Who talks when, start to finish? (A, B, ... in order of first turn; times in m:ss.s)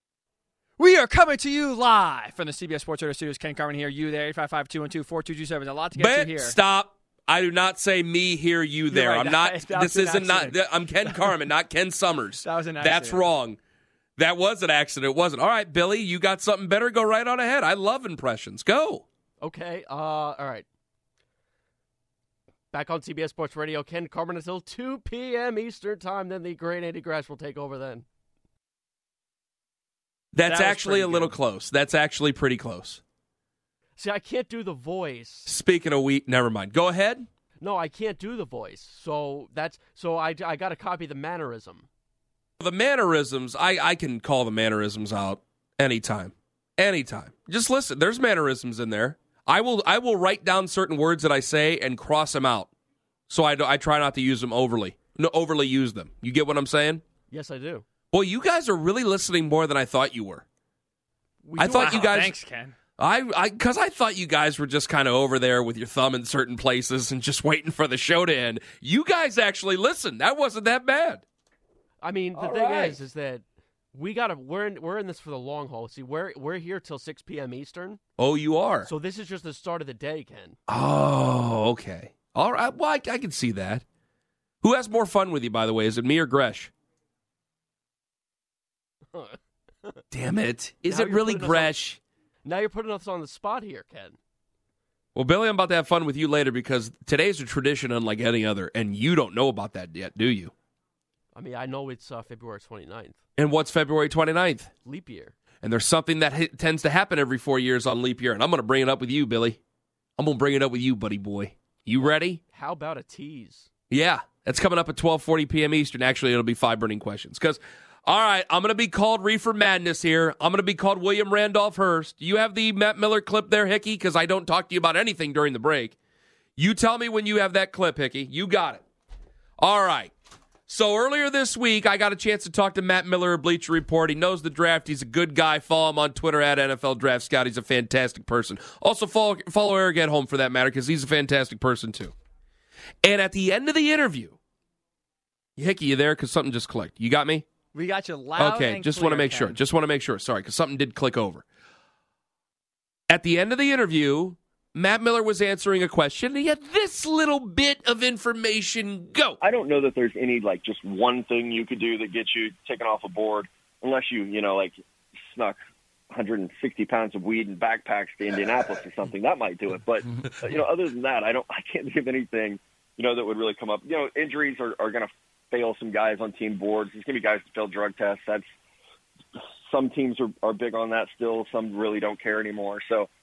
0:00.8-0:06.6 A
0:06.0-0:13.6 B
0:08.9-0:11.3 A
0:12.4-0:13.2 A
0:14.2-0:19.0 B
0:19.4-0:20.6 C
0:22.7-0:28.0 C
0:30.3-0:33.0 B
0:30.5-0:31.4 A
0:34.0-0:35.5 C
0:35.5-0:37.3 B
0:37.6-0:41.9 C
0:42.6-0:52.7 B
0:53.3-0:57.0 B
0:57.3-0:57.8 C
0:58.1-1:00.4 B
1:01.4-1:02.1 C
1:01.6-1:02.7 A
1:01.6-1:02.3 B
1:03.0-1:11.2 B
1:12.0-1:18.0 C
1:12.3-1:12.9 B
1:18.2-1:18.9 B
1:18.8-1:20.6 C
1:20.7-1:23.8 B
1:24.6-1:26.7 B
1:29.1-1:30.0 C
1:30.1-1:32.0 B
1:30.9-1:31.7 C
1:32.4-1:34.2 C
1:35.1-1:40.5 B
1:41.3-1:43.2 C
1:43.4-1:44.7 B
1:44.8-1:45.3 C
1:45.6-1:49.6 B
1:50.2-1:52.4 B
1:52.0-1:53.7 C
1:53.9-2:06.0 B
2:06.6-2:08.8 B
2:09.6-2:10.1 B
2:10.7-2:22.1 B
2:23.0-2:24.4 B
2:25.6-2:27.4 B
2:27.7-2:29.6 A
2:28.4-2:31.4 B
2:33.1-2:39.4 B
2:39.4-2:44.7 D
2:45.2-2:45.6 D
2:46.1-2:58.5 D
2:59.6-3:03.1 D